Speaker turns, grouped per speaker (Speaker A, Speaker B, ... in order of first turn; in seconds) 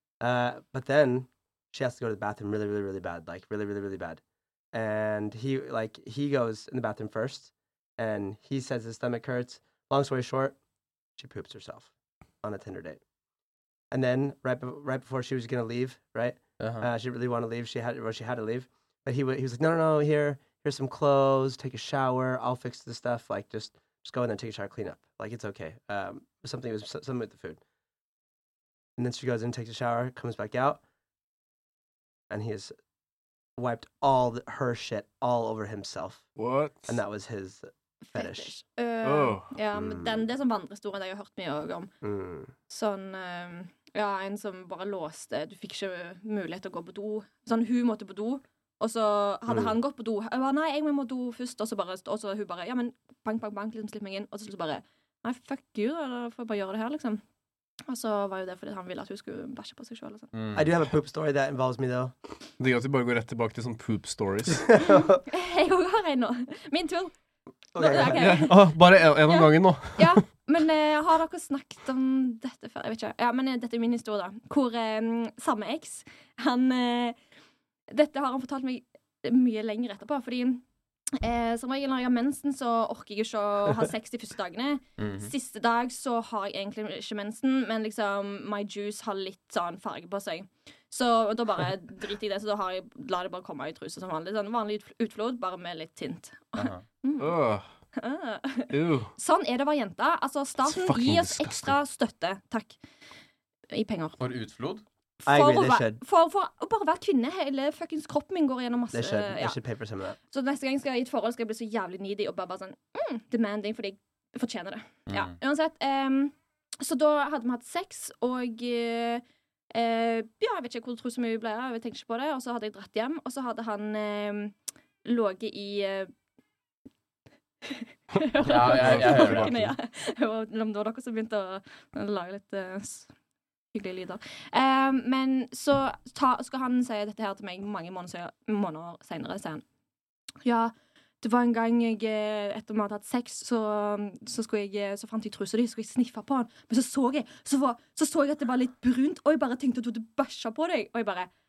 Speaker A: 0.2-4.2, 4.7-10.6, 11.2-11.9, 12.4-13.0, 13.9-27.6, 29.0-30.8, 32.3-32.8, 33.6-36.3, 36.9-38.5, 39.7-40.2, 42.0-42.5, 49.5-49.7, 60.5-62.1, 64.6-65.2, 67.8-68.4, 105.3-106.0, 108.9-110.2
Speaker B: 16.6-16.9, 60.3-60.7, 85.0-85.3, 96.6-96.8, 104.2-104.8, 115.1-115.3, 128.5-129.7
Speaker C: 36.4-37.0, 39.0-39.5, 62.6-64.7, 68.0-70.2, 97.2-97.6, 98.7-99.1, 100.7-101.8, 128.6-129.6
Speaker D: 38.1-41.9, 42.7-57.2, 57.9-60.3, 65.3-67.1, 67.8-77.2, 77.9-80.6, 81.2-97.4, 98.0-102.8, 103.7-104.2, 105.3-109.6, 110.3-126.1, 127.7-133.1, 133.7-139.6, 140.4-151.3